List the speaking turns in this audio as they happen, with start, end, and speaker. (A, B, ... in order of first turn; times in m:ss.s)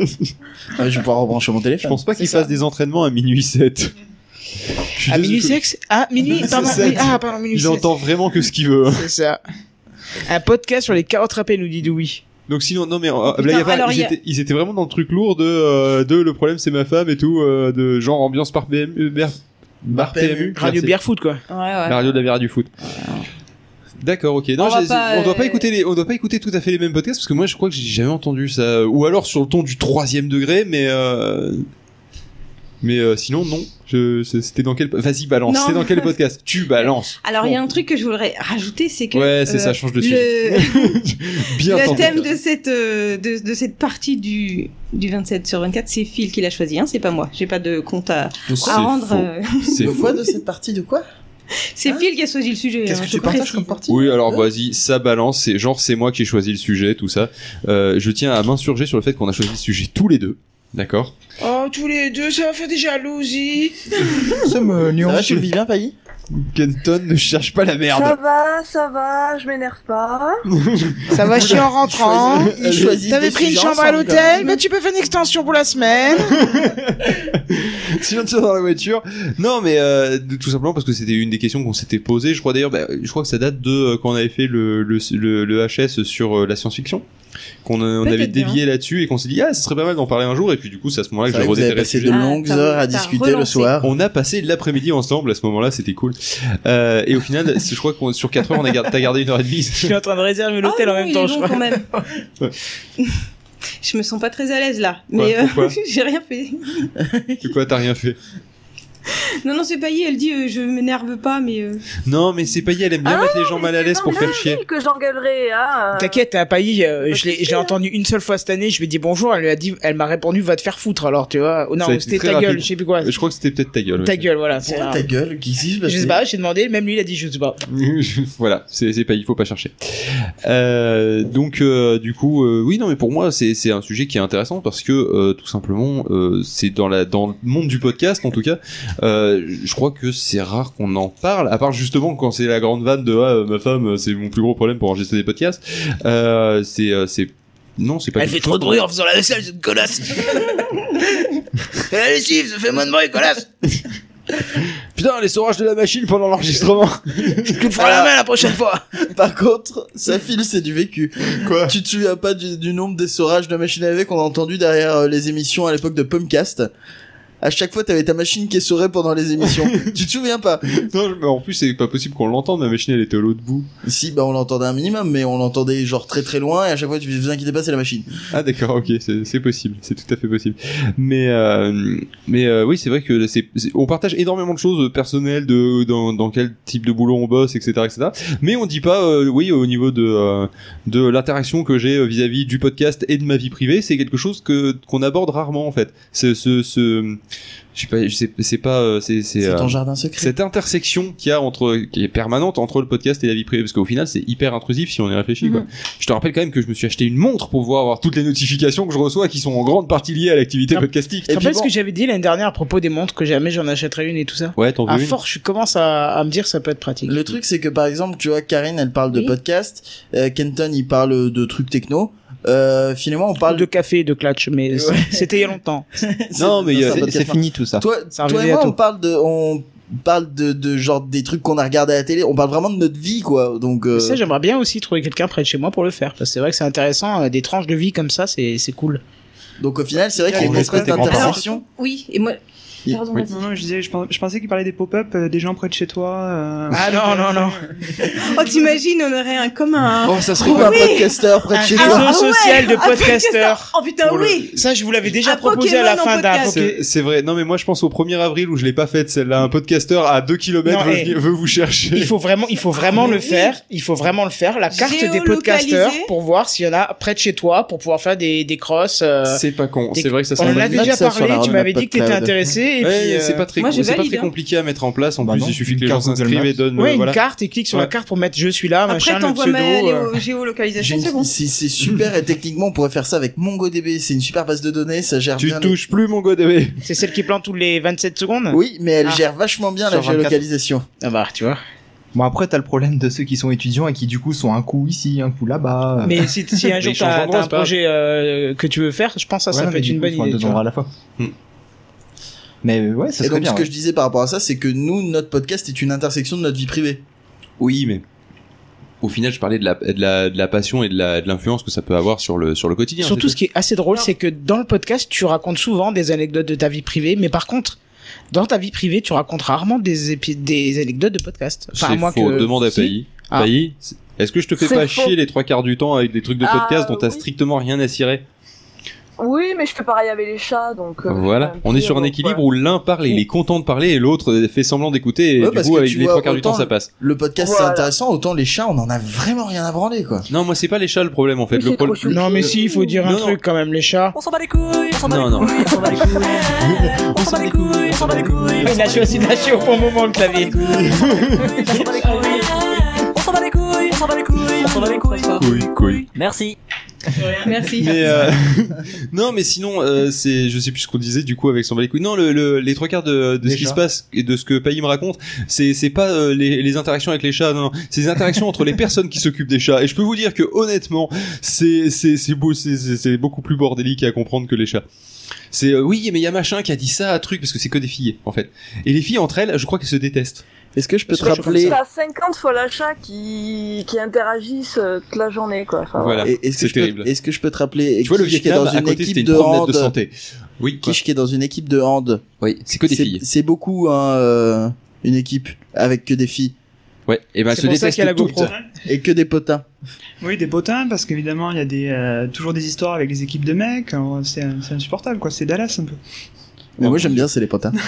0:00.7-0:02.0 A
0:01.8-0:03.9 B
0:02.2-0:02.5 C
0:04.9-0:05.6 B
0:05.1-0:07.9 C
0:06.2-0:09.1 B
0:08.9-0:09.4 C
0:10.3-0:12.2 C
0:12.5-0:20.9 B
0:13.3-0:14.1 D
0:19.9-0:20.6 A
0:20.6-0:21.4 C
0:21.5-0:22.2 D
0:21.9-0:22.7 B
0:22.8-0:23.2 D
0:24.0-0:31.6 B
0:24.6-0:25.7 D
0:32.8-0:37.6 B
0:35.5-0:36.1 D
0:36.8-0:41.0 D
0:39.1-0:42.3 B
0:41.6-0:50.0 D
0:41.8-0:42.2 A
0:48.5-0:48.8 A
0:48.6-0:50.0 B
0:49.8-0:51.0 A
0:51.7-0:53.8 D
0:52.8-0:54.1 E
0:53.9-1:01.1 B
1:01.4-1:04.3 C
1:04.4-1:05.4 E
1:05.0-1:05.9 A
1:06.3-1:08.2 B
1:07.9-1:10.4 F
1:10.5-1:13.0 B
1:11.1-1:16.4 C
1:11.8-1:14.5 A
1:16.4-1:27.0 B
1:27.6-1:32.2 B
1:28.0-1:28.6 D
1:31.3-1:33.9 A
1:32.1-1:33.7 D
1:33.8-1:39.9 B
1:39.8-1:41.7 C
1:40.6-1:41.8 D
1:43.8-1:46.9 D
1:45.1-1:45.7 B
1:47.0-1:47.5 A
1:47.4-1:48.2 B
1:49.4-1:51.8 D
1:52.0-1:54.6 B
1:53.0-1:56.2 F
1:55.9-2:03.1 C
1:57.1-1:57.7 F
2:01.8-2:04.3 B
2:04.0-2:05.0 C
2:04.6-2:06.2 A
2:05.8-2:07.6 C
2:07.7-2:28.8 B
2:28.2-2:31.2 C
2:31.8-2:33.5 C
2:34.9-2:37.6 B
2:37.4-2:38.8 C
2:37.8-2:38.1 A
2:39.1-2:46.7 A
2:41.3-2:41.7 B
2:47.4-2:50.8 A
2:49.4-2:49.9 B
2:50.7-2:53.7 B
2:53.8-2:58.1 A
2:58.3-3:17.2 B
3:17.7-3:31.3 B
3:19.4-3:20.3 A
3:30.7-3:37.2 C
3:31.3-3:31.7 A
3:34.6-3:35.2 B
3:37.0-3:43.7 A
3:43.5-3:45.8 C
3:44.7-3:45.4 A
3:46.0-3:54.2 A
3:46.4-3:47.1 B
3:46.9-3:47.8 E
3:48.1-3:48.8 C
3:53.9-3:59.0 C
3:59.6-4:01.6 A
4:00.1-4:01.3 G
4:00.3-4:01.3 B
4:01.0-4:03.4 D
4:03.2-4:08.5 G
4:06.7-4:07.6 C
4:08.1-4:14.5 D
4:10.0-4:10.9 B
4:10.4-4:12.2 A
4:11.5-4:13.7 C
4:14.5-4:16.8 C
4:15.2-4:16.6 D
4:16.4-4:22.1 B
4:20.6-4:21.1 C
4:21.9-4:29.4 C
4:22.9-4:23.5 D
4:24.7-4:26.1 D
4:29.2-4:31.0 B
4:29.9-4:33.4 C
4:30.4-4:32.3 A
4:32.8-4:37.2 B
4:33.6-4:34.3 D
4:35.2-4:36.6 E
4:36.8-4:40.1 C
4:38.9-4:41.3 D
4:40.8-4:45.8 A
4:45.4-4:46.8 B
4:46.8-4:49.2 C
4:48.5-4:50.8 A
4:49.9-4:50.3 E
4:51.0-4:51.6 C
4:52.1-4:56.3 E
4:56.0-5:00.6 C
4:56.8-4:57.7 B
4:59.5-5:00.9 E
5:02.6-5:03.7 E
5:03.2-5:07.0 A
5:07.6-5:08.0 B
5:09.0-5:13.4 B
5:13.0-5:17.8 C
5:18.3-5:23.5 C
5:21.7-5:28.2 B
5:24.6-5:25.1 F
5:26.4-5:27.2 F
5:29.2-5:32.4 F
5:31.0-5:36.9 B
5:35.4-5:40.3 A
5:37.4-5:37.9 F
5:40.3-5:42.5 B
5:41.5-5:43.0 F
5:42.1-5:44.1 C
5:43.0-5:43.4 B
5:44.1-5:49.3 H
5:45.0-5:49.3 B
5:48.6-5:52.4 C
5:50.5-5:56.6 H
5:50.6-5:51.5 B
5:54.6-5:55.4 D
5:55.4-5:56.0 B
5:57.4-5:58.2 D
5:57.8-6:14.8 B
5:58.1-5:58.3 E
6:03.4-6:03.8 E
6:15.5-6:20.4 B
6:20.7-6:21.8 A
6:21.1-6:21.8 C
6:21.2-6:26.3 F
6:25.9-6:27.1 B
6:26.2-6:29.9 A
6:28.0-6:31.0 B
6:30.8-6:32.2 A
6:32.4-6:33.2 B
6:32.9-6:36.5 A
6:37.1-6:38.5 B
6:37.5-6:38.5 C
6:38.8-6:39.6 A
6:40.2-6:46.0 G
6:46.8-6:47.7 A
6:46.8-6:47.2 B